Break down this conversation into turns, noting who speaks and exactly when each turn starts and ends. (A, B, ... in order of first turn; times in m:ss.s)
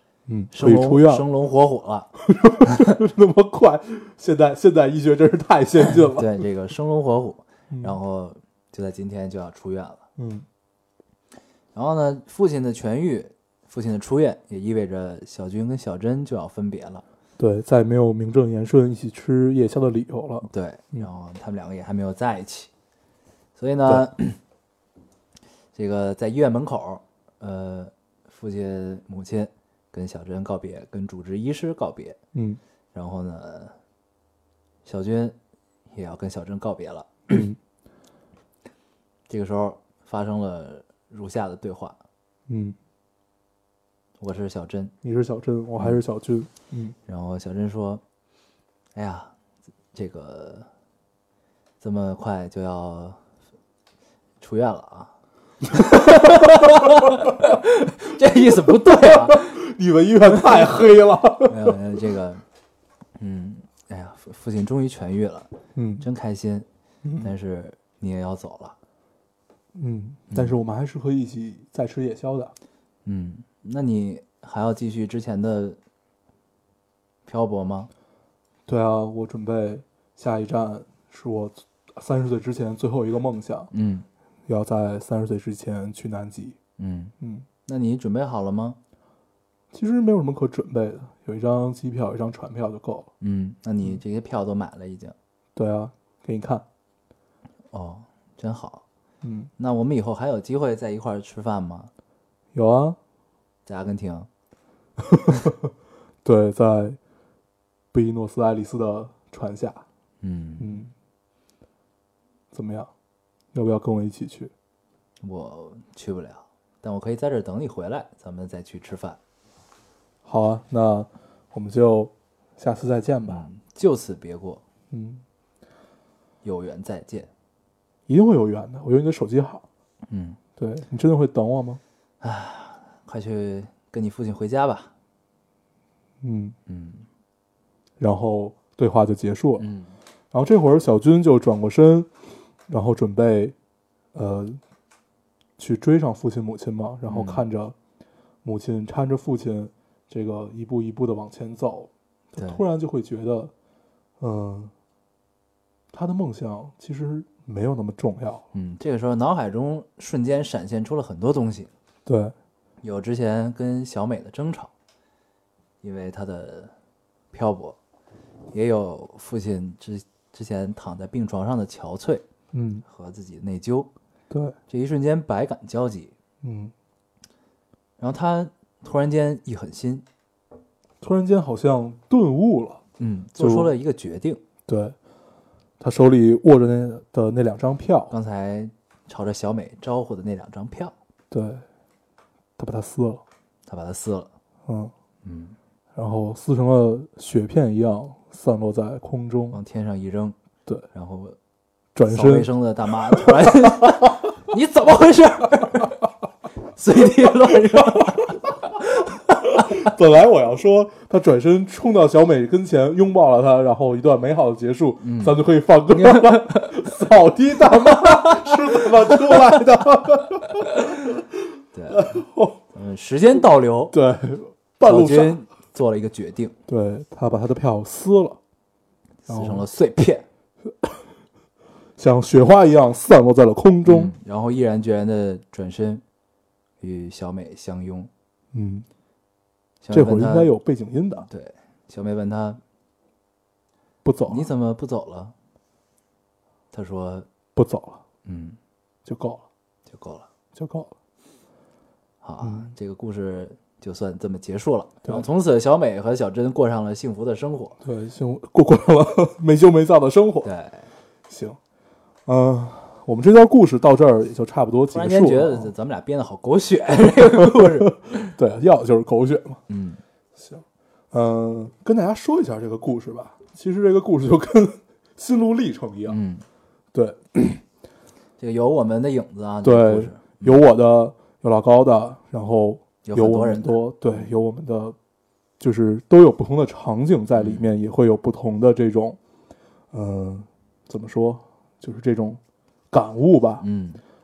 0:00.3-0:01.2 A
0:00.5-0:02.1 B
0:02.3-0:06.4 A
0:02.6-0:02.9 B
0:06.2-0:10.0 B
0:07.7-0:08.0 A
0:10.2-0:10.4 A
0:11.7-0:17.0 B
0:17.4-0:21.1 A
0:20.5-0:22.7 B
0:23.6-0:24.4 B
0:25.7-0:32.2 B
0:32.3-0:32.6 A
0:32.9-0:33.8 B
0:34.8-0:35.4 B
0:35.9-0:37.2 B
0:37.3-0:37.6 A
0:39.3-0:42.0 B
0:42.5-0:42.8 A
0:44.2-0:44.9 B
0:45.0-0:47.0 A
0:47.1-0:48.0 B
0:48.9-0:49.3 B
0:49.9-0:50.7 B
0:51.8-0:53.2 B
0:54.4-0:55.1 B
0:55.7-0:59.6 B
0:55.9-0:56.9 A
0:58.7-1:01.8 A
1:01.5-1:02.4 B
1:03.2-1:06.6 B
1:05.7-1:06.0 A
1:07.0-1:07.3 A
1:07.2-1:08.8 B
1:09.7-1:12.5 A
1:13.0-1:15.8 B
1:17.2-1:17.9 B
1:18.7-1:23.7 A
1:23.7-1:24.1 B
1:24.5-1:26.6 A
1:26.8-1:27.1 B
1:27.2-1:27.4 A
1:27.6-1:28.8 B
1:29.7-1:33.1 A
1:33.2-1:35.1 B
1:35.6-1:36.6 A
1:37.7-1:38.8 B
1:39.2-1:39.5 A
1:39.6-1:41.9 B
1:42.5-1:43.0 A
1:43.6-1:44.3 B
1:45.0-1:45.7 A
1:46.2-1:47.0 A
1:47.9-1:49.8 A
1:50.2-1:50.8 B
1:50.6-1:50.9 A
1:52.5-1:52.9 A
1:53.5-1:54.5 A
1:55.2-1:59.2 B
2:00.2-2:03.4 A
2:03.2-2:04.6 B
2:04.9-2:05.2 A
2:06.4-2:07.3 B
2:08.1-2:09.6 A
2:10.1-2:10.4 B
2:10.6-2:11.8 A
2:12.2-2:14.9 B
2:16.2-2:16.6 A
2:16.7-2:17.0 B
2:18.0-2:19.7 A
2:19.6-2:19.9 B
2:20.3-2:22.1 A
2:22.7-2:23.5 A
2:24.1-2:24.6 A
2:25.6-2:27.7 A
2:27.0-2:27.4 B
2:28.4-2:33.5 A
2:32.4-2:32.6 B
2:34.2-2:34.7 A
2:35.9-2:38.4 A
2:38.5-2:41.7 B
2:42.0-2:42.3 A
2:42.8-2:44.7 B
2:45.8-2:46.7 B
2:47.3-2:47.8 B
2:48.5-2:52.2 B
2:52.5-2:52.8 A
2:52.8-2:53.9 B
2:54.3-2:54.6 A
2:54.7-2:56.1 B
2:56.4-2:56.7 A
2:58.0-3:00.0 B
3:01.0-3:02.8 A
3:03.0-3:04.4 B
3:03.4-3:03.7 A
3:04.7-3:05.0 A
3:05.8-3:08.1 A
3:08.1-3:10.9 B
3:11.3-3:11.6 A
3:12.6-3:13.2 A
3:13.7-3:14.3 B
3:14.7-3:14.9 A
3:15.2-3:15.6 B
3:15.9-3:19.6 A
3:19.5-3:20.4 B
3:20.9-3:21.4 B
3:21.9-3:22.5 A
3:22.0-3:25.9 B
3:23.1-3:23.9 A
3:26.7-3:28.8 B
3:29.7-3:41.2 A
3:35.0-3:36.8 B
3:38.0-3:39.5 B
3:40.6-3:40.9 B
3:41.7-3:42.2 B
3:41.9-3:42.6 A
3:42.7-3:43.9 B
3:43.9-3:45.4 A
3:44.8-3:46.5 B
3:46.7-3:48.4 A
3:49.2-3:50.2 B
3:49.3-3:49.6 A
3:50.6-3:51.0 A
3:52.0-3:54.1 A
3:53.8-3:56.0 B
3:56.8-3:58.1 B
3:58.5-3:58.8 A
3:59.8-4:00.5 B
3:59.9-4:01.2 A
4:01.3-4:02.6 B
4:04.0-4:04.5 A
4:04.3-4:05.3 B
4:06.7-4:07.2 B
4:07.5-4:08.0 A
4:08.2-4:08.6 B
4:09.0-4:09.4 A
4:09.9-4:10.3 B
4:10.5-4:10.9 A
4:12.2-4:17.8 B
4:12.4-4:12.7 A
4:17.8-4:20.5 A
4:20.4-4:20.8 B
4:21.3-4:21.6 A
4:22.3-4:25.7 A
4:24.9-4:28.3 B
4:27.3-4:29.6 A
4:29.7-4:30.0 B
4:30.4-4:36.2 A
4:36.1-4:36.4 B
4:36.9-4:37.6 A
4:38.4-4:40.6 B
4:39.6-4:45.0 A
4:43.0-4:44.3 B
4:45.6-4:49.2 A
4:47.4-4:47.7 B
4:49.9-4:52.4 A
4:52.9-4:53.6 A
4:53.6-4:54.0 B